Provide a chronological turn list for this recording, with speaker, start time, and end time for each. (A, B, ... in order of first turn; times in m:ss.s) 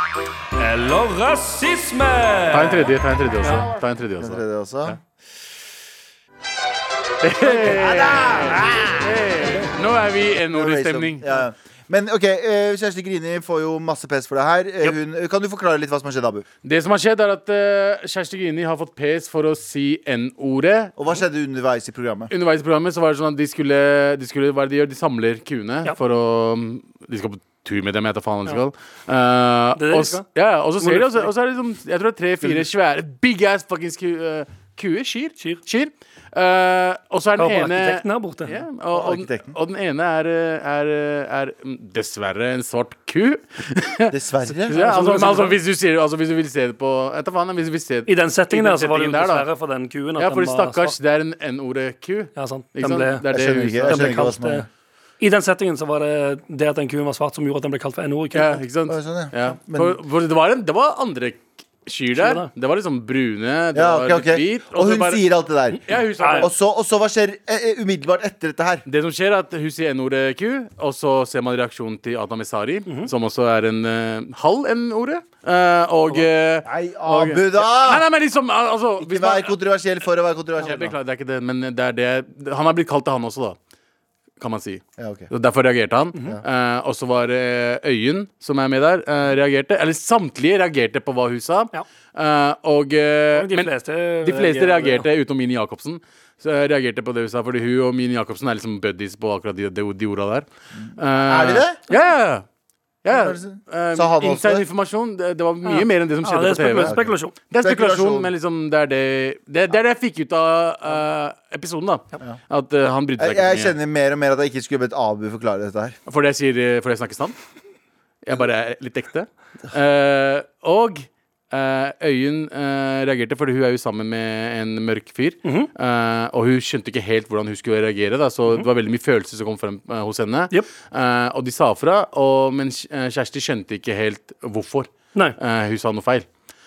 0:00.5-0:03.7 A
0:02.5-0:05.0 B
0:04.2-0:05.0 C
0:07.2-0:11.2 B
0:07.4-0:09.3 C
0:10.5-0:16.4 C
0:16.6-0:21.0 B
0:21.0-0:22.3 C
0:22.3-0:44.1 B
0:29.8-0:30.2 A
0:30.8-0:31.3 A
0:37.4-0:38.6 A
0:38.9-0:39.5 C
0:44.1-0:45.3 C
0:44.7-0:45.6 A
0:44.7-0:49.4 B
0:48.1-0:51.0 A
0:50.2-0:54.2 B
0:52.4-0:53.2 A
0:53.3-0:54.7 C
0:53.8-0:54.6 A
0:55.2-0:58.6 A
0:58.3-1:05.2 B
0:58.9-1:00.0 C
1:02.1-1:02.5 A
1:03.7-1:08.8 C
1:05.8-1:06.5 B
1:06.2-1:06.5 A
1:08.9-1:19.6 B
1:16.6-1:18.1 C
1:19.0-1:21.0 C
1:20.6-1:23.6 B
1:24.4-1:33.7 B
1:25.0-1:25.3 C
1:33.3-1:35.0 A
1:34.2-1:42.4 B
1:41.2-1:41.8 C
1:43.0-1:47.0 B
1:43.1-1:44.7 C
1:45.6-1:47.3 A
1:46.8-1:48.3 C
1:47.5-1:53.7 B
1:53.2-1:56.0 C
1:56.1-1:57.4 B
1:58.2-2:16.2 B
2:05.4-2:05.7 A